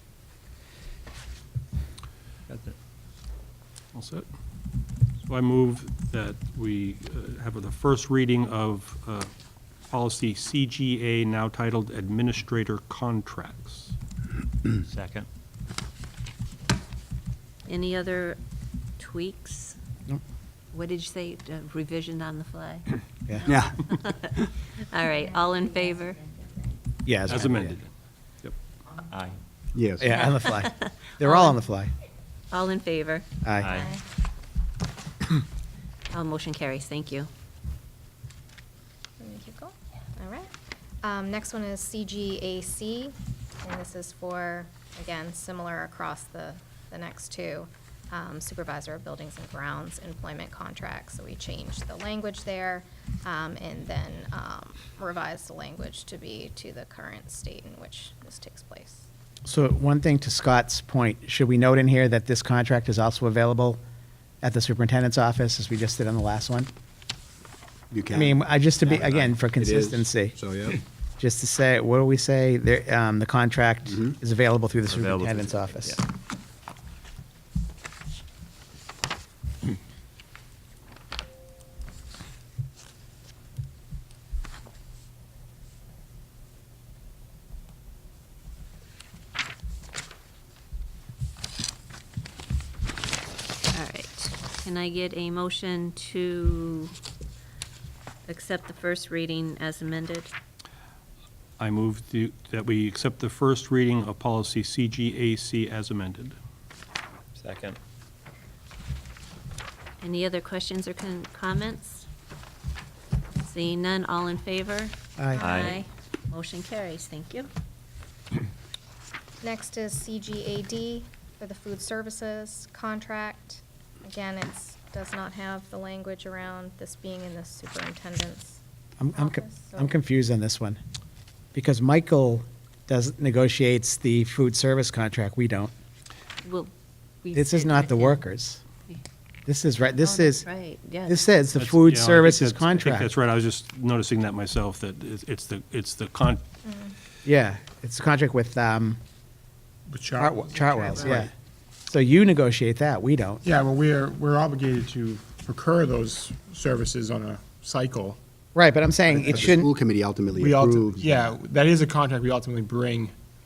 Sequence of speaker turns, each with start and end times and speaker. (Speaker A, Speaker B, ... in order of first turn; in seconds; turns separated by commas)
Speaker A: 3.9-4.3, Speaker A: 5.3-9.3, Speaker A: 9.9-13.9, Speaker B: 14.9-15.3, Speaker C: 17.7-18.4, Speaker C: 19.0-19.8, Speaker C: 20.7-26.2, Speaker D: 23.5-24.4, Speaker E: 27.1-27.8, Speaker A: 27.3-27.9, Speaker B: 29.1-29.4, Speaker D: 29.8-30.2, Speaker E: 30.0-31.9, Speaker C: 30.3-31.6, Speaker C: 32.5-33.3, Speaker E: 33.4-33.8, Speaker B: 33.6-34.0, Speaker F: 33.7-34.0, Speaker C: 36.1-37.3, Speaker F: 39.2-40.5, Speaker F: 41.0-59.1, Speaker E: 59.5-63.8, Speaker E: 64.4-66.7, Speaker D: 67.9-68.4, Speaker E: 68.1-70.4, Speaker D: 69.0-70.8, Speaker E: 71.2-76.0, Speaker D: 73.9-74.1, Speaker B: 74.9-76.0, Speaker C: 93.7-97.0, Speaker C: 98.3-100.3, Speaker A: 101.6-106.4, Speaker B: 107.4-107.8, Speaker C: 110.0-112.1, Speaker C: 113.4-117.5, Speaker E: 115.2-115.4, Speaker B: 115.4-115.8, Speaker F: 115.4-115.7, Speaker F: 119.4-128.6, Speaker E: 129.0-130.8, Speaker F: 129.1-129.9, Speaker E: 131.5-135.7, Speaker C: 136.4-136.7, Speaker C: 137.2-138.2, Speaker E: 137.3-138.6, Speaker E: 139.5-140.5, Speaker C: 139.9-141.3, Speaker E: 141.1-143.1, Speaker A: 141.6-146.4, Speaker F: 146.7-146.9, Speaker E: 147.2-149.0, Speaker G: 149.9-151.3, Speaker E: 150.2-151.3, Speaker C: 150.9-151.2, Speaker E: 151.9-153.5, Speaker G: 153.4-158.2, Speaker E: 158.6-159.7, Speaker D: 159.1-161.3, Speaker G: 160.4-163.1